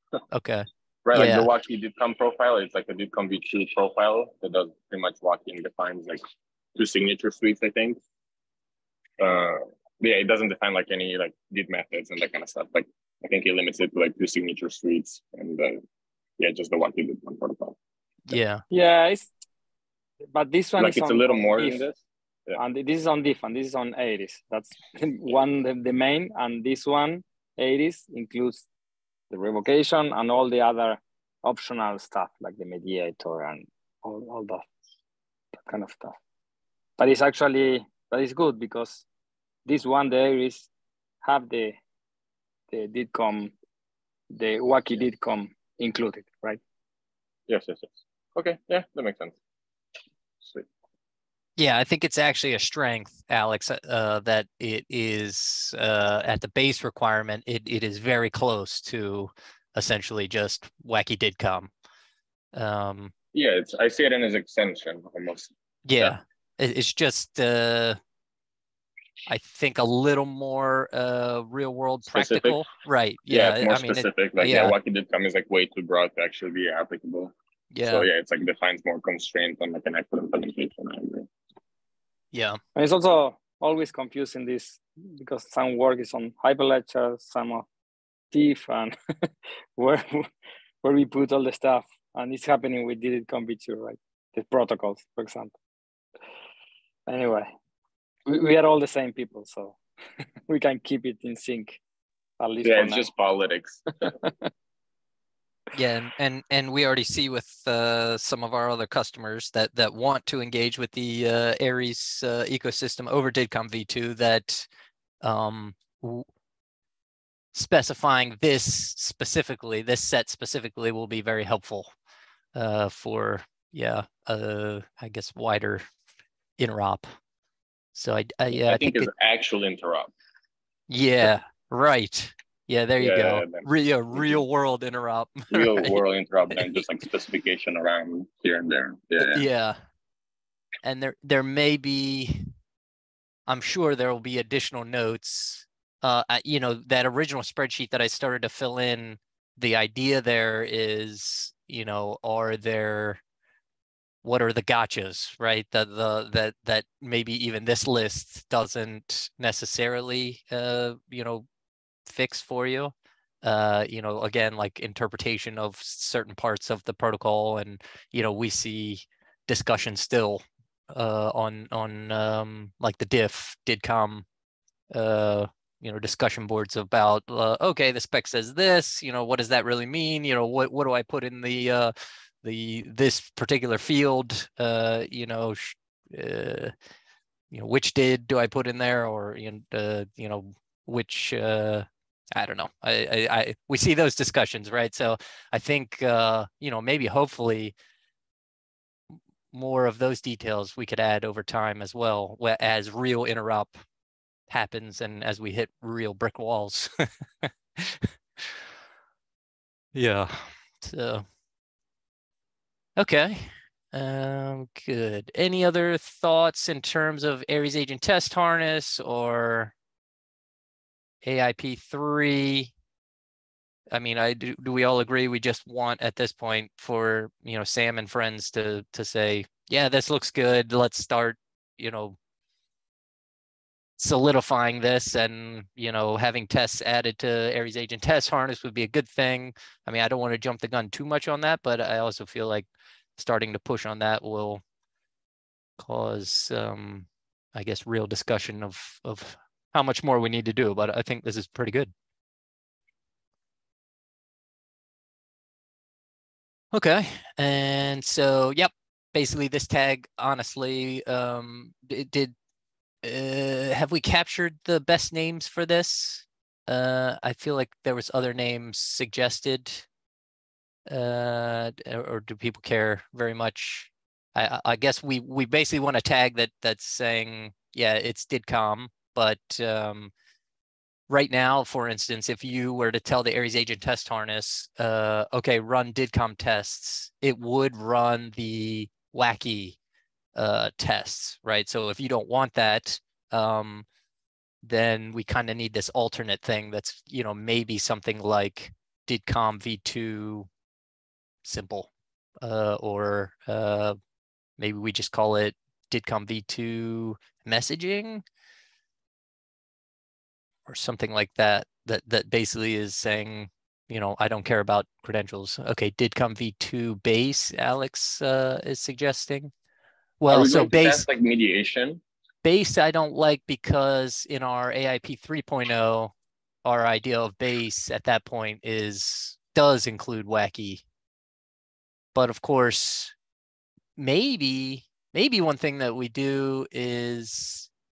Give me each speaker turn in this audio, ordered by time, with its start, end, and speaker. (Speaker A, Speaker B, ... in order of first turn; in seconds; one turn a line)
Speaker A: 0.3-1.5
Speaker B: 1.1-6.2
Speaker B: 6.8-8.0
Speaker B: 9.2-15.8
Speaker B: 16.4-17.8
Speaker A: 18.3-18.6
Speaker C: 18.7-19.3
Speaker C: 20.3-21.8
Speaker B: 20.8-22.6
Speaker C: 22.6-28.7
Speaker C: 29.3-34.7
Speaker C: 35.6-36.1
Speaker C: 37.0-39.0
Speaker C: 39.7-40.7
Speaker C: 41.2-41.8
Speaker C: 42.7-43.5
Speaker C: 44.3-46.6
Speaker B: 47.5-49.4
Speaker A: 51.6-61.7
Speaker A: 62.5-63.1
Speaker B: 63.3-66.2
Speaker A: 65.9-68.0
Speaker A: 69.3-74.8
Speaker B: 72.1-72.7
Speaker B: 73.3-77.3
Speaker A: 77.7-78.1
Speaker B: 77.8-81.3
Speaker A: 82.3-82.6
Speaker C: 82.8-87.7
Speaker C: 88.3-89.0
Speaker C: 89.8-90.3
Speaker C: 90.8-95.5
Speaker C: 97.1-97.5
Speaker C: 98.3-99.8
Speaker C: 100.5-101.8
Speaker C: 102.4-103.1
Speaker B: 102.6-103.9
Speaker A: 105.7-114.7
Speaker A: 115.2-116.3
Speaker A: 117.5-121.9
Speaker A: 122.5-125.8
Speaker A: 126.6-127.1
Speaker A: 128.0-129.1
Speaker B: 128.5-130.1
Speaker A: 130.9-136.8
Speaker B: 133.0-134.4
Speaker B: 135.5-139.4
Speaker A: 139.2-139.8
Speaker A: 140.8-142.5
Speaker A: 143.5-153.2
Speaker A: 154.2-161.5
Speaker A: 162.1-174.3
Speaker A: 174.9-186.7
Speaker A: 187.5-197.8
Speaker A: 199.1-203.8
Speaker A: 204.5-208.7
Speaker A: 209.9-211.2
Speaker A: 213.0-219.7
Speaker A: 221.2-222.7
Speaker A: 223.9-232.2
Speaker A: 234.0-244.6
Speaker A: 245.8-251.9
Speaker A: 256.7-262.3
Speaker A: 263.0-269.9
Speaker A: 270.9-280.1
Speaker A: 281.1-289.8
Speaker A: 290.4-293.9
Speaker A: 294.6-300.5
Speaker A: 301.4-301.9
Speaker A: 302.4-304.0
Speaker A: 304.6-308.2
Speaker A: 310.7-319.5
Speaker A: 320.2-321.1
Speaker B: 320.3-322.0
Speaker A: 322.4-326.1
Speaker A: 326.6-330.8
Speaker A: 332.1-333.1
Speaker A: 334.0-337.7